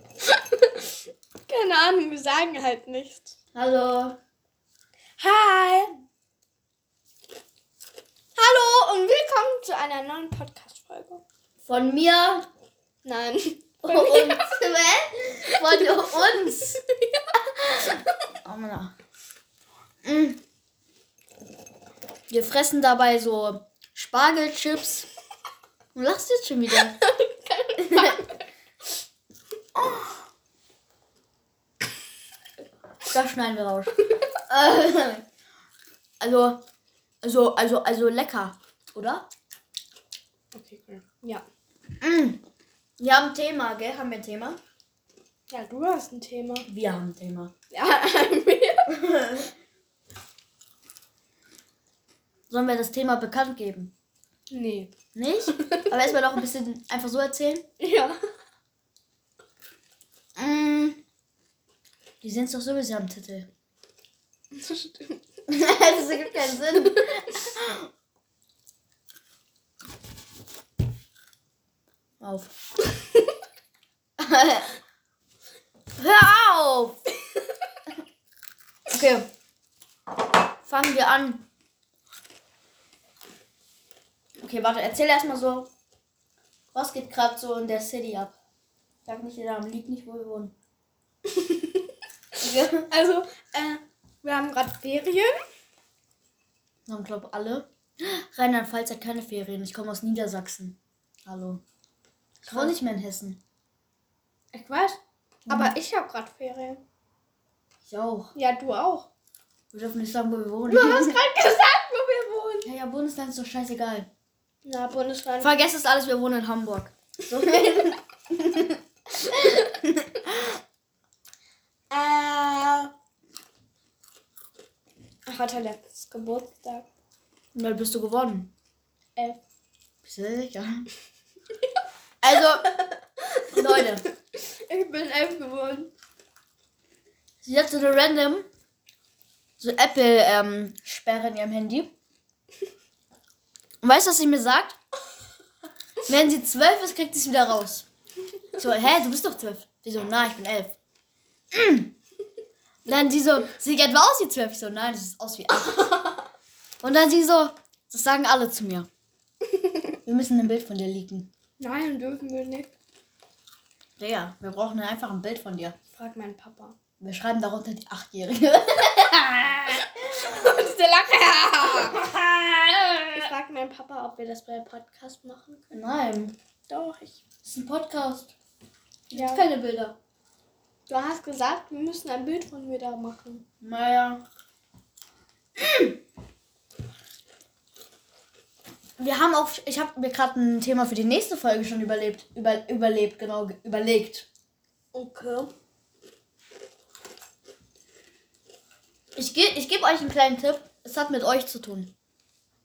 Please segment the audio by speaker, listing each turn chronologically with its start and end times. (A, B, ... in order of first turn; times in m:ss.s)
0:00.3-0:00.9 A
0:01.5-0:03.3 A
0:03.5-0:04.2 B
0:05.2-0:05.9 A
0:08.4-0:11.2 A
0:11.6-0:12.5 B
0:13.0-0:14.6 A
0:13.8-0:16.8 B
0:15.6-0:18.0 A
0:18.4-0:18.9 B
0:20.0-0:20.4 B
0:22.3-0:25.1 B
0:25.9-0:27.0 B
0:26.8-0:28.3 A
0:27.8-0:28.2 B
0:29.7-0:30.2 B
0:33.0-0:33.9 B
0:34.5-0:35.2 B
0:36.2-0:36.6 B
0:37.2-0:39.3 B
0:40.5-0:41.4 A
0:42.0-0:42.4 B
0:43.0-0:44.6 B
0:45.5-0:46.7 A
0:46.7-0:47.5 B
0:47.7-0:49.0 A
0:48.9-0:49.5 B
0:52.5-0:53.9 B
0:54.5-0:54.9 A
0:55.1-0:57.6 B
0:55.5-0:56.0 A
0:57.8-0:58.2 A
1:00.4-1:01.0 B
1:02.2-1:03.5 B
1:04.5-1:05.2 A
1:05.5-1:07.9 B
1:12.2-1:12.5 B
1:14.2-1:14.7 B
1:16.0-1:17.0 B
1:18.9-1:19.3 B
1:20.6-1:21.4 B
1:24.4-1:25.7 B
1:26.7-1:28.3 B
1:29.0-1:30.5 B
1:31.3-1:31.8 A
1:32.4-1:32.9 B
1:32.9-1:35.4 A
1:36.9-1:41.6 B
1:42.4-1:43.4 B
1:42.4-1:42.7 A
1:44.5-1:46.8 A
1:45.4-1:45.7 B
1:47.9-1:48.3 B
1:48.3-1:49.1 A
1:49.7-1:51.2 B
1:50.7-1:52.7 A
1:52.6-1:54.1 B
1:54.6-1:55.6 A
1:55.4-2:00.6 B
2:01.9-2:02.9 B
2:05.2-2:06.9 A
2:07.5-2:08.5 B
2:10.0-2:10.9 B
2:12.2-2:12.7 B
2:12.6-2:15.9 A
2:13.5-2:14.0 B
2:17.4-2:18.5 B
2:19.6-2:21.9 B
2:23.8-2:24.8 B
2:26.0-2:27.9 B
2:28.6-2:30.8 B
2:31.5-2:31.9 B
2:32.8-2:36.1 B
2:36.8-2:38.9 B
2:40.0-2:41.3 B
2:41.6-2:42.7 A
2:44.0-2:45.8 B
2:46.0-2:46.8 A
2:47.0-2:49.8 B
2:50.1-2:52.1 A
2:52.0-2:53.2 B
2:53.1-2:55.8 A
2:55.7-2:56.4 B
2:56.7-2:57.2 A
2:57.4-2:58.3 B
2:59.1-3:00.0 B
2:59.1-2:59.4 A
3:00.9-3:03.4 A
3:03.6-3:04.2 B
3:05.6-3:05.9 B
3:09.0-3:14.3 B
3:14.9-3:15.5 A
3:19.2-3:21.9 B